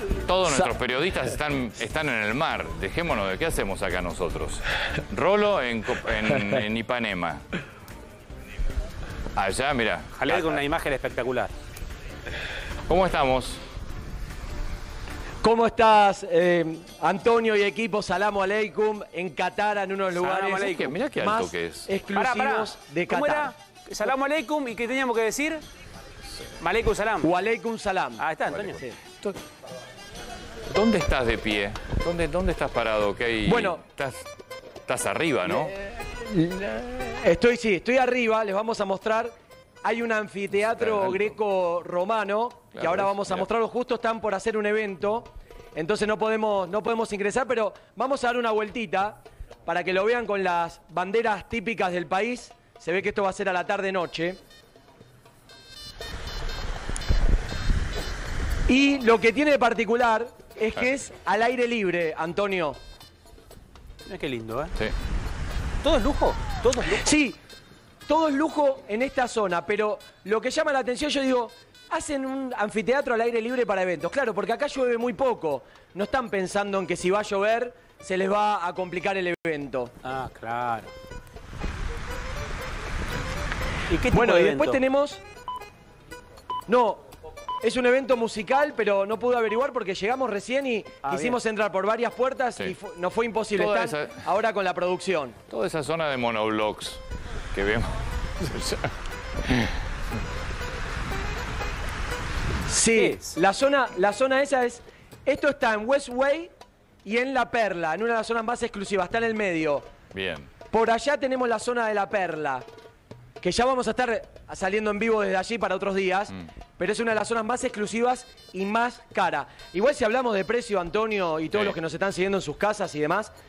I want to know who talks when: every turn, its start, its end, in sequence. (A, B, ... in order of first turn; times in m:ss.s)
0:00.2-0:07.4 A
0:09.3-0:10.6 A
0:10.1-0:11.5 B
0:12.9-0:13.6 A
0:15.4-0:23.5 C
0:20.1-0:20.9 B
0:20.5-0:21.9 A
0:22.1-0:25.6 B
0:26.6-0:27.3 B
0:27.2-0:29.0 C
0:28.2-0:28.8 B
0:28.5-0:29.4 A
0:30.7-0:34.3 A
0:33.4-0:33.8 C
0:34.8-0:35.8 A
0:35.4-0:39.3 C
0:39.8-0:54.4 C
0:40.6-0:41.3 A
0:42.7-0:43.4 A
0:58.7-1:02.8 C
1:04.1-1:04.7 B
1:05.8-1:07.1 B
1:07.0-1:07.4 C
1:08.1-1:19.9 C
1:20.0-1:20.9 B
1:23.9-1:24.8 B
1:24.1-1:25.2 C
1:26.7-1:27.0 C
1:27.6-1:35.4 C
1:31.0-1:31.4 B
1:33.6-1:34.3 A
1:35.5-1:37.0 A
1:37.5-1:38.9 A
1:39.4-1:39.7 A
1:42.7-1:46.5 C
1:43.0-1:43.4 B
1:47.0-1:49.8 C
1:50.1-1:50.5 A
1:50.7-1:52.6 C
1:53.4-2:03.3 C